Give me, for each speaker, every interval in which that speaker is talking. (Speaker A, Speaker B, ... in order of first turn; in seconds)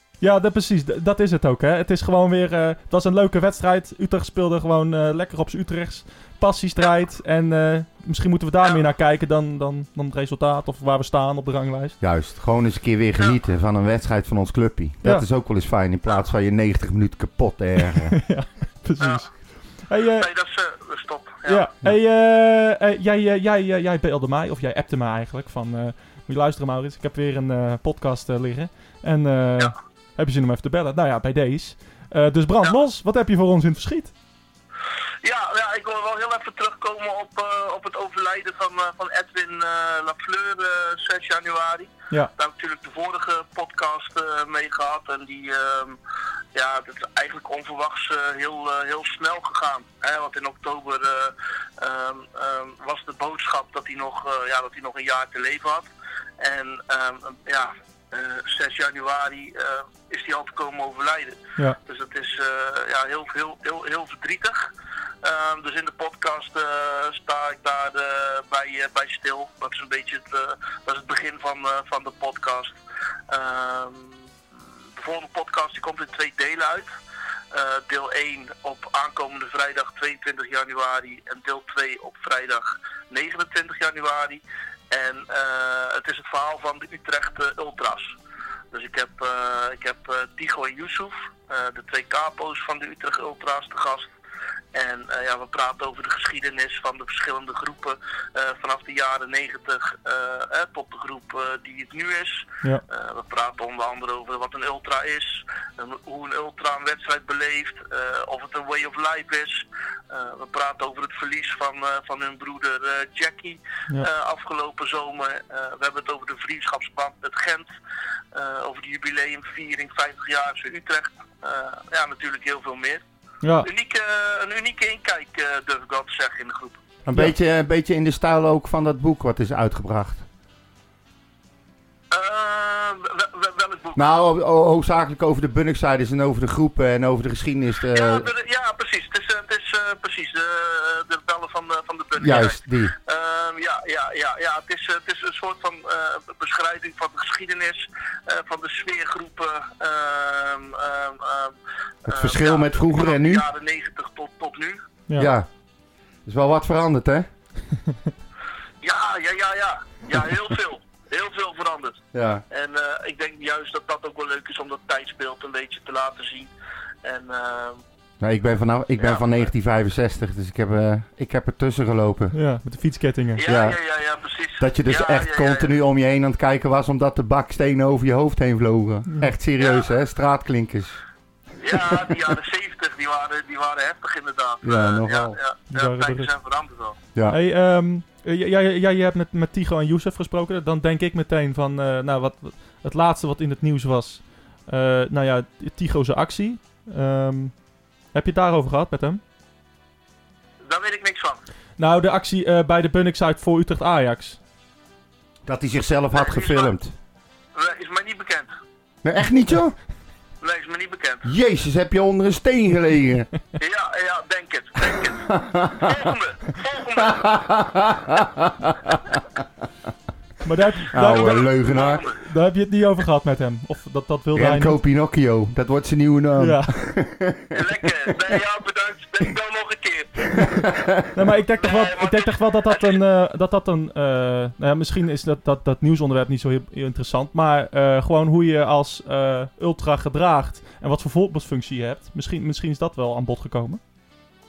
Speaker A: 0.2-12.0, 18.1-20.3, 21.5-34.1, 123.4-123.7, 155.1-155.3, 172.3-173.4, 179.1-179.3, 185.7-186.3, 187.3-197.6, 198.1-199.2, 201.8-204.4, 220.4-221.5, 222.2-224.8, 226.4-226.8, 231.1-243.8
Speaker B: 12.0-18.2, 127.0-130.2, 134.0-138.3, 142.2-142.9, 152.1-153.5, 155.2-155.5, 156.2-157.3, 162.1-162.4, 168.2-172.3, 173.4-173.8, 174.6-181.0, 181.7-182.2, 184.6-185.4, 205.4-206.9, 209.0-209.8, 211.2-213.3, 215.2-216.1, 217.0-219.2, 220.9-222.1, 224.3-228.4, 230.4-230.9
Speaker C: 19.0-19.3, 20.2-21.7, 35.2-46.0, 46.5-64.7, 65.2-72.8, 73.3-74.3, 75.0-76.9, 77.5-88.2, 88.7-94.1, 94.7-117.7, 118.3-123.0, 123.6-126.8, 132.1-134.0, 137.9-154.8, 158.8-166.5, 167.0-167.8, 169.0-169.4, 173.4-175.7, 181.6-187.0, 200.7-201.4, 206.1-206.7, 207.6-208.5, 210.4-211.3, 213.6-217.3, 221.1-222.2, 227.5-230.7, 231.6-233.0